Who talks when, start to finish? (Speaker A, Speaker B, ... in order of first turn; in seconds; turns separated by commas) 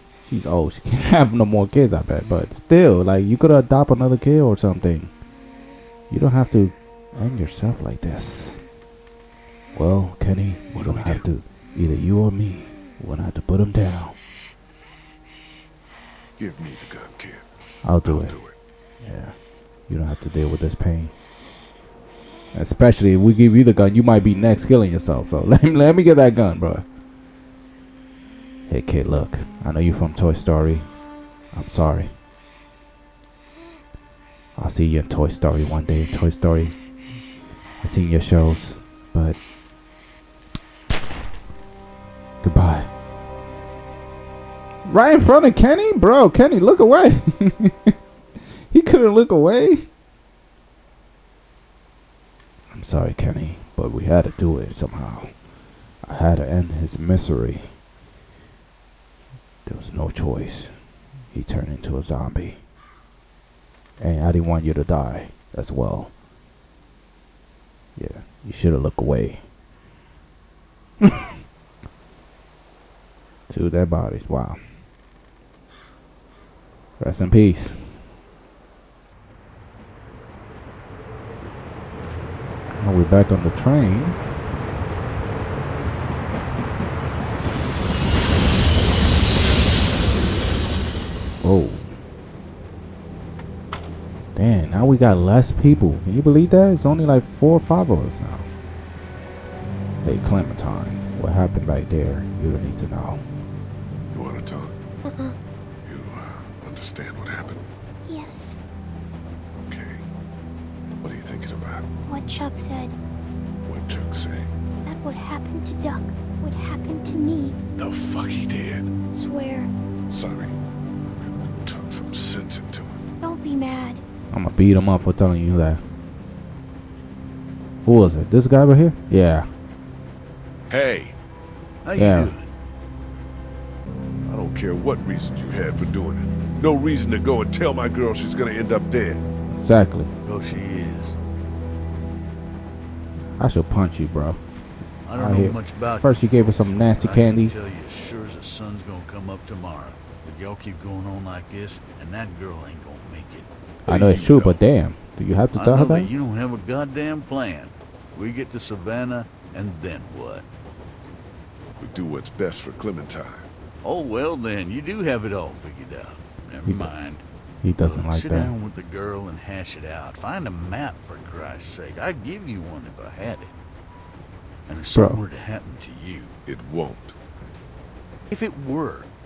Speaker A: 0.2-5.1, Speaker A: 6.1-8.6, Speaker A: 9.7-14.2, Speaker B: 10.7-11.2, Speaker B: 16.4-17.4, Speaker A: 17.8-18.4, Speaker B: 18.0-18.5, Speaker A: 19.0-19.4, Speaker A: 19.9-21.1, Speaker A: 22.5-26.8, Speaker A: 28.7-30.9, Speaker A: 31.5-32.1, Speaker A: 34.6-36.7, Speaker A: 37.8-39.4, Speaker A: 42.4-42.9, Speaker A: 44.9-47.9, Speaker A: 48.7-49.9, Speaker A: 52.7-55.3, Speaker A: 56.0-57.7, Speaker A: 59.6-60.7, Speaker A: 61.3-62.6, Speaker A: 64.0-66.1, Speaker A: 68.0-69.4, Speaker A: 71.0-71.3, Speaker A: 73.5-74.6, Speaker A: 77.0-78.0, Speaker A: 82.8-84.2, Speaker A: 91.4-91.9, Speaker A: 94.3-98.5, Speaker A: 100.0-103.2, Speaker B: 104.1-104.7, Speaker C: 105.0-105.3, Speaker B: 105.8-107.6, Speaker C: 108.1-108.6, Speaker B: 109.6-110.0, Speaker B: 111.0-111.9, Speaker C: 112.1-112.9, Speaker B: 113.7-114.5, Speaker C: 114.8-117.5, Speaker B: 117.8-118.9, Speaker C: 119.1-119.7, Speaker B: 120.1-123.0, Speaker C: 123.2-124.0, Speaker A: 124.3-125.8, Speaker A: 127.8-129.5, Speaker B: 130.7-131.2, Speaker D: 131.8-132.5, Speaker A: 131.9-132.3, Speaker B: 134.2-139.2, Speaker A: 139.5-140.1, Speaker D: 140.2-141.2, Speaker A: 143.4-144.4, Speaker D: 145.1-153.5, Speaker A: 145.2-147.5, Speaker B: 153.8-154.6, Speaker A: 153.8-156.1, Speaker D: 155.5-160.4, Speaker B: 161.8-163.5, Speaker D: 163.8-167.2, Speaker A: 166.6-166.9, Speaker A: 167.6-168.5, Speaker D: 167.8-173.5, Speaker D: 174.7-176.3, Speaker A: 174.9-175.2, Speaker B: 176.5-177.1, Speaker D: 178.3-179.1